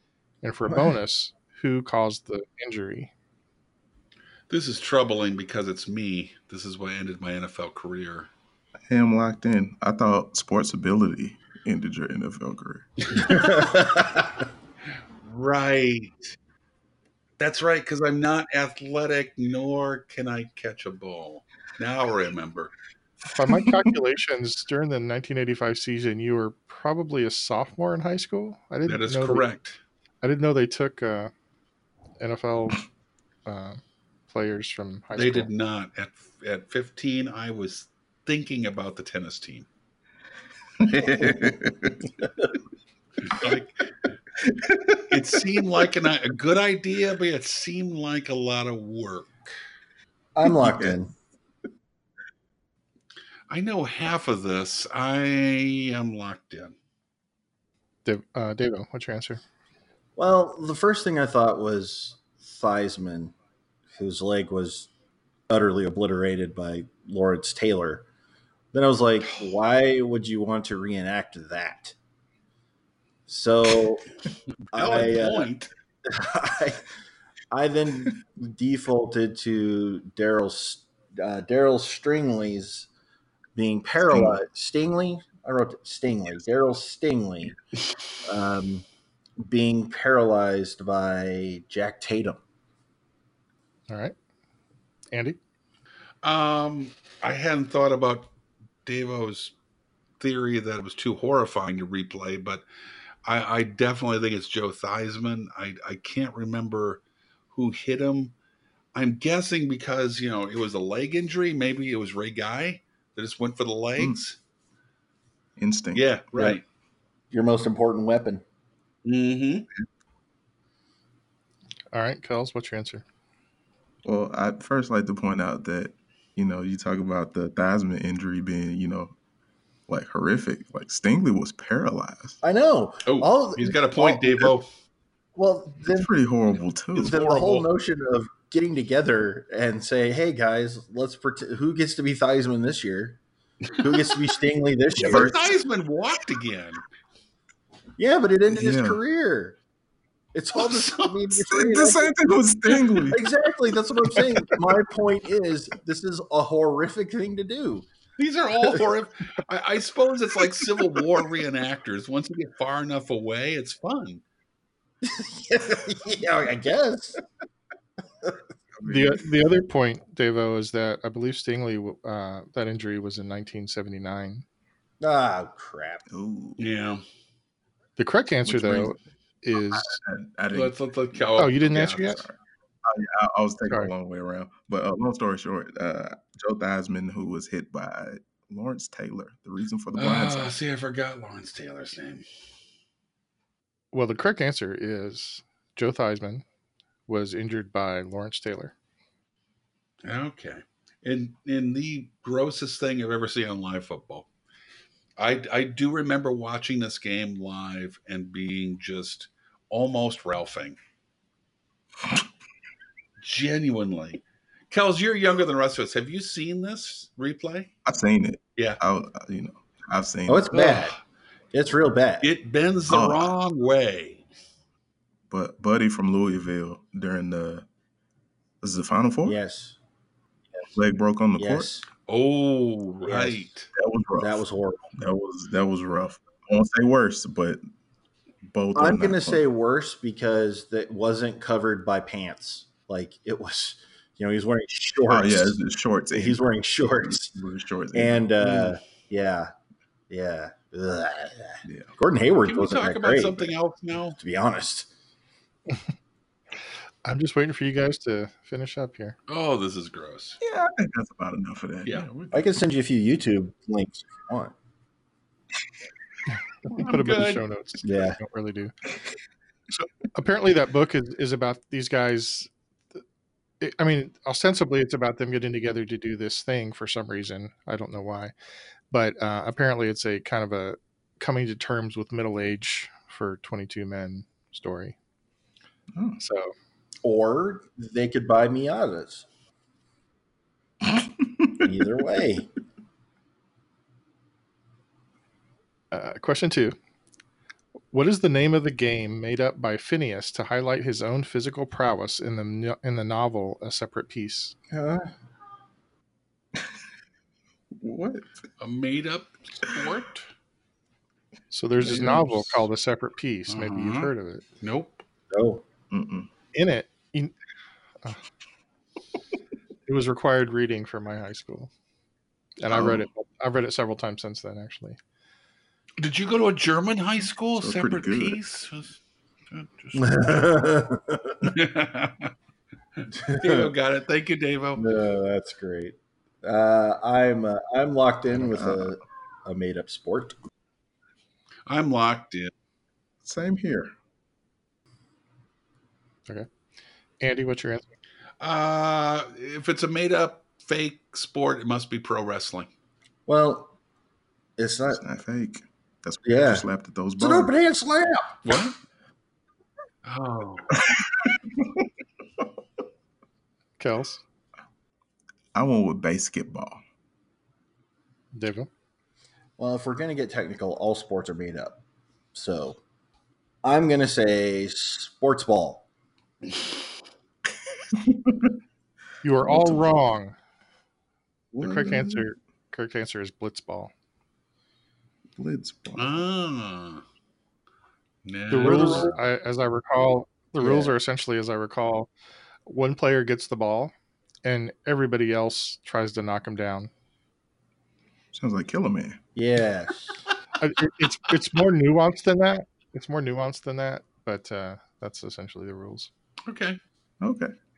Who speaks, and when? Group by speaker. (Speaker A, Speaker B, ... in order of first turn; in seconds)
Speaker A: 0.4-3.1, 23.3-29.4, 30.2-31.3, 32.2-32.8, 33.5-35.5, 58.0-59.4, 93.9-94.2, 95.1-95.4, 121.9-123.0, 168.8-174.4, 178.0-180.0, 181.4-182.2, 193.9-196.4, 197.1-198.7, 257.1-259.2, 266.7-268.7, 269.7-272.5, 273.6-278.3, 278.9-285.0, 286.2-286.5, 295.9-296.8, 297.9-304.6, 311.5-314.4, 316.5-317.3, 319.9-321.7, 322.6-325.0, 347.2-347.9, 363.8-364.2, 368.3-368.7, 379.2-380.4, 381.6-383.9, 388.5-392.1, 392.7-393.9, 394.4-396.9, 400.6-406.1
Speaker B: 4.5-8.3, 13.2-13.4, 15.2-16.3, 17.4-22.7, 28.9-29.8, 35.1-39.7, 43.3-43.9, 45.1-49.5, 53.5-56.8, 74.7-75.7, 96.2-98.3, 98.8-99.5, 100.2-102.6, 103.3-108.3, 108.9-114.4, 115.9-116.6, 119.0-119.7, 133.1-134.7, 137.0-137.7, 145.0-146.8, 150.6-151.2, 158.2-164.2, 176.6-177.0, 180.5-182.2, 189.9-192.2, 200.0-204.3, 205.2-210.8, 213.2-217.7, 220.5-220.9, 222.2-224.2, 232.1-233.7, 252.4-254.2, 259.3-260.4, 261.9-262.1, 266.7-267.4, 308.6-310.3, 311.8-312.3, 313.5-315.0, 326.0-329.0, 329.5-330.2, 331.4-332.3, 333.0-334.9, 341.7-342.5, 348.4-352.7, 358.4-358.8, 360.1-360.8, 386.0-387.0, 388.2-389.2, 406.5-406.8
Speaker C: 8.9-13.3, 40.8-42.1, 44.4-45.2, 50.4-51.0, 84.1-84.4, 115.6-116.1, 124.0-129.1, 129.9-132.4, 135.9-137.2, 145.0-145.4, 148.5-149.0, 151.5-153.3, 168.8-169.2, 176.1-176.6, 178.4-179.0, 179.6-182.3, 182.9-190.5, 217.8-220.5, 222.9-223.3, 225.3-227.7, 228.6-229.4, 230.8-231.7, 233.7-234.4, 234.9-237.6, 238.4-239.4, 245.1-248.7, 251.7-251.9, 260.4-262.5, 285.9-286.2, 290.8-291.5, 307.8-308.3, 311.9-312.3, 315.9-316.3, 327.6-328.4, 338.4-338.9, 343.2-343.9, 354.9-357.5, 365.5-366.8, 378.1-378.5, 379.5-380.0, 381.5-382.3, 385.4-386.3, 398.3-399.2, 407.2-407.5
Speaker D: 13.1-14.3, 40.9-41.6, 42.2-42.5, 50.4-51.1, 60.2-63.4, 64.0-64.9, 65.5-68.1, 68.7-72.0, 73.3-74.1, 74.7-75.5, 76.1-76.9, 77.5-82.9, 83.6-87.5, 88.2-88.9, 89.4-92.4, 117.3-118.4, 132.4-134.5, 135.4-136.1, 137.0-143.2, 143.8-145.4, 148.0-149.6, 150.3-152.1, 153.0-157.9, 165.0-167.2, 175.0-176.0, 220.3-221.0, 221.5-222.3, 229.2-229.8, 231.4-231.9, 233.1-233.5, 234.2-234.9, 238.8-245.6, 246.2-247.3, 247.9-249.5, 250.1-253.5, 254.2-254.9, 262.3-264.5, 267.8-268.2, 287.0-289.3, 291.6-292.5, 304.7-305.1, 315.3-315.6, 329.9-331.5, 333.1-333.7, 334.8-340.4, 353.3-353.7, 354.6-355.0, 356.2-356.7, 357.2-358.4, 369.6-371.8, 372.3-372.8, 373.6-375.9, 388.6-389.1, 390.6-390.9, 399.4-400.2